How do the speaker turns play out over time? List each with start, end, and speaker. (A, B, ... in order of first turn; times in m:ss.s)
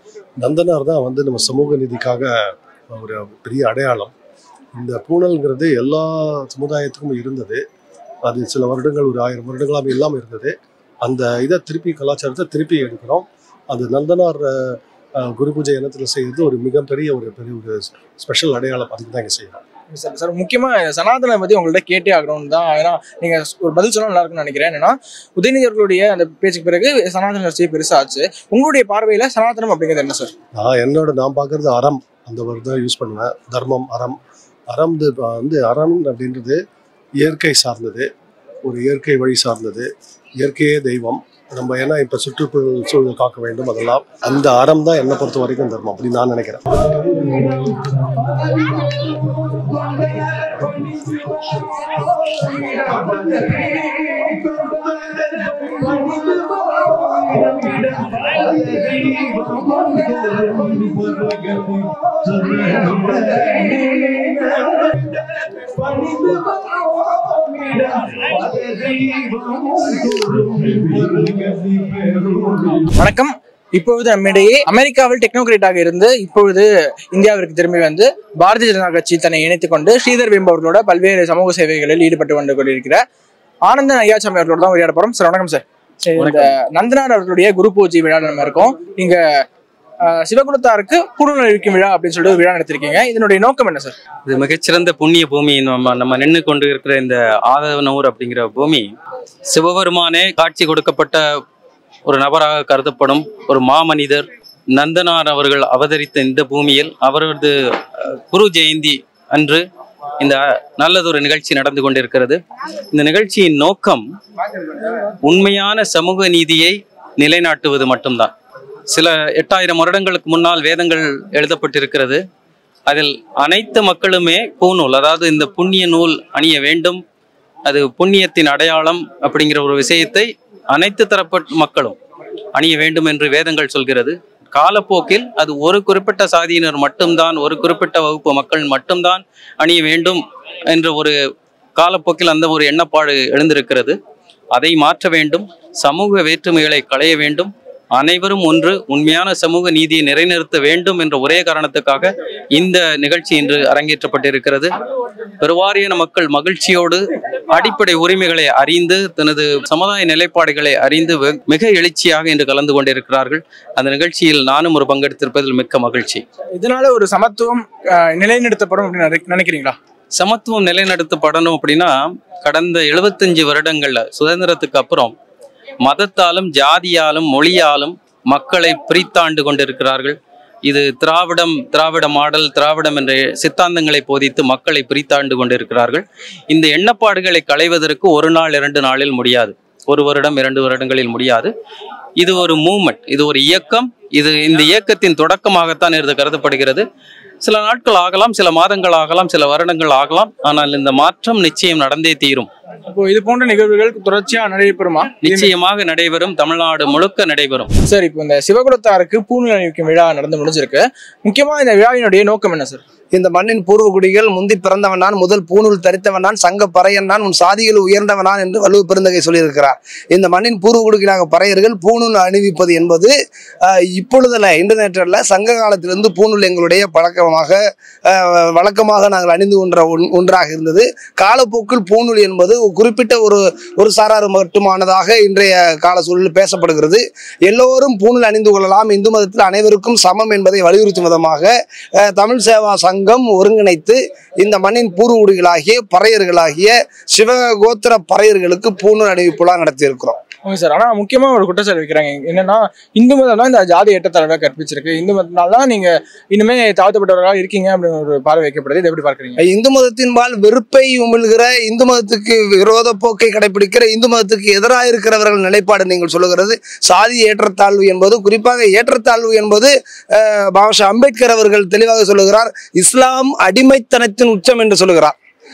0:00.4-0:04.1 A
0:04.7-0:07.6 A
0:08.2-0:19.6 A
0:19.9-0:30.3 B
0:30.5-0:36.6 A
0:37.2-0:38.1 A
0:38.6-0:46.9 A
1:02.5-1:03.7 A
1:06.1-1:06.3 A
1:08.3-1:11.1 A
1:11.6-1:12.3 A
1:12.9-1:23.0 B
1:23.6-1:29.2 B
1:26.2-1:26.5 C
1:30.0-1:34.0 B
1:34.3-1:38.9 C
1:39.5-1:41.2 C
1:42.1-1:49.6 C
1:50.2-1:52.4 C
1:52.9-1:54.0 C
1:55.2-1:58.3 C
1:58.9-2:02.2 C
2:02.9-2:07.0 C
2:07.6-2:12.0 C
2:12.5-2:21.2 C
2:21.8-2:24.0 C
2:24.5-2:34.7 C
2:35.4-2:37.0 C
2:37.5-2:46.2 C
2:46.6-2:49.8 B
2:50.1-2:55.1 C
2:55.8-3:11.5 C
3:12.2-3:16.8 C
3:17.4-3:22.5 C
3:22.9-3:25.5 B
3:25.2-3:27.7 C
3:27.9-3:32.8 B
3:33.1-4:01.5 D
4:02.0-4:10.2 D
4:10.4-4:19.4 B
4:19.4-4:35.1 D